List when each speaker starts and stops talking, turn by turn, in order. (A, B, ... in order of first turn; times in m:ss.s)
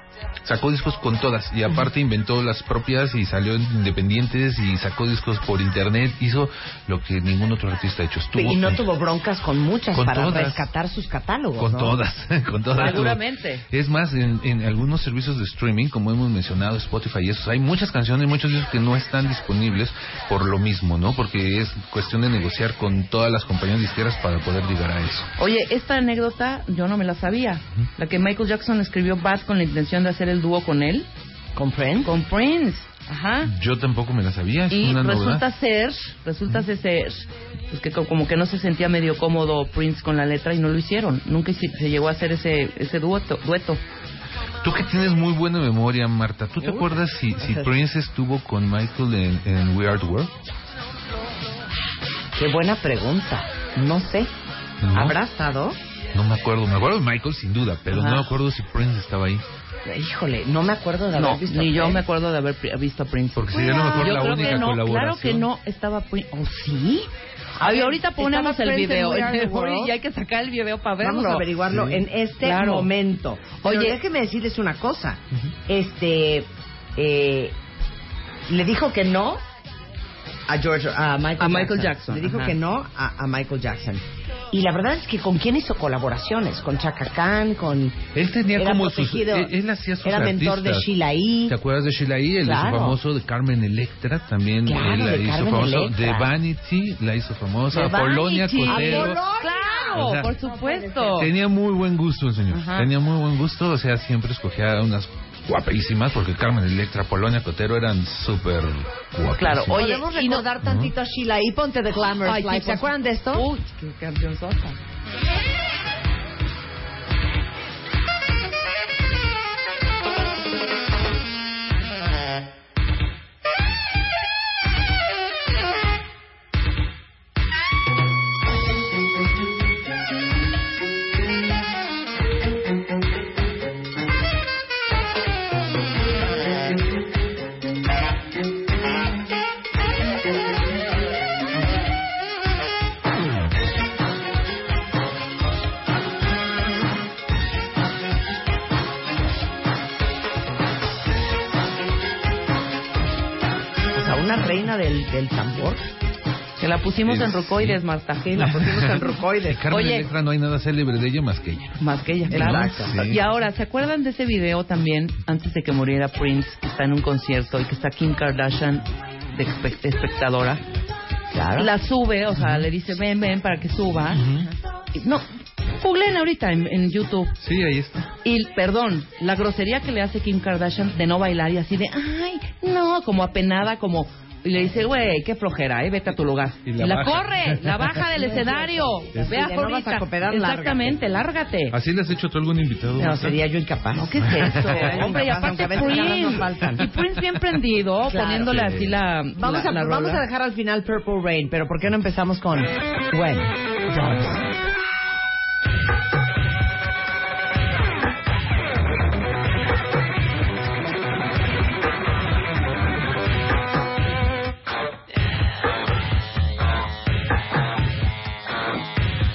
0:00.4-0:08.8 A
0:08.4-0:12.0 B
0:09.9-0:10.7 A
0:11.6-0:25.3 A
0:12.7-0:13.6 C
0:25.4-0:31.1 C
0:31.6-0:32.1 B
0:32.1-0:33.5 C
0:33.4-0:35.5 A
0:34.7-0:43.8 C
0:44.6-0:50.3 A
0:46.6-0:47.7 C
0:52.4-0:54.3 B
0:54.8-0:55.2 A
0:54.9-0:55.8 B
0:56.1-0:59.4 A
0:58.0-0:58.2 C
0:59.9-1:02.0 B
1:01.2-1:07.1 C
1:03.4-1:05.5 A
1:07.6-1:09.9 B
1:07.6-1:11.6 C
1:11.0-1:17.6 B
1:11.7-1:12.0 A
1:12.4-1:12.9 C
1:13.6-1:14.0 C
1:18.5-1:19.4 B
1:20.5-1:28.0 B
1:21.4-1:22.6 C
1:28.1-1:30.9 A
1:28.5-1:31.6 B
1:31.5-1:39.2 A
1:32.4-1:33.0 B
1:34.7-1:36.3 B
1:37.7-1:41.3 C
1:37.8-1:41.3 B
1:39.9-1:40.3 A
1:41.2-1:49.8 A
1:42.5-1:42.9 C
1:49.4-1:50.5 C
1:49.7-1:53.5 B
1:50.6-1:50.9 A
1:52.2-1:54.8 C
2:33.9-2:35.8 B
2:36.6-2:38.6 C
2:37.0-2:37.8 A
2:38.3-2:39.6 B
2:38.4-2:43.3 A
2:39.7-2:40.1 C
2:41.8-2:50.6 C
2:42.3-2:43.0 B
2:51.3-2:51.7 B
2:51.6-2:54.4 C
2:52.3-2:52.7 A
2:54.1-2:54.5 A
2:55.8-2:57.4 C
2:57.4-2:58.1 A
2:58.2-3:11.8 C
3:06.6-3:08.1 A
3:08.1-3:11.0 B
3:11.7-3:13.4 A
3:13.0-3:16.9 B
3:13.9-3:20.2 C
3:14.2-3:15.4 A
3:18.1-3:18.6 B
3:18.4-3:19.0 A
3:19.4-3:24.3 B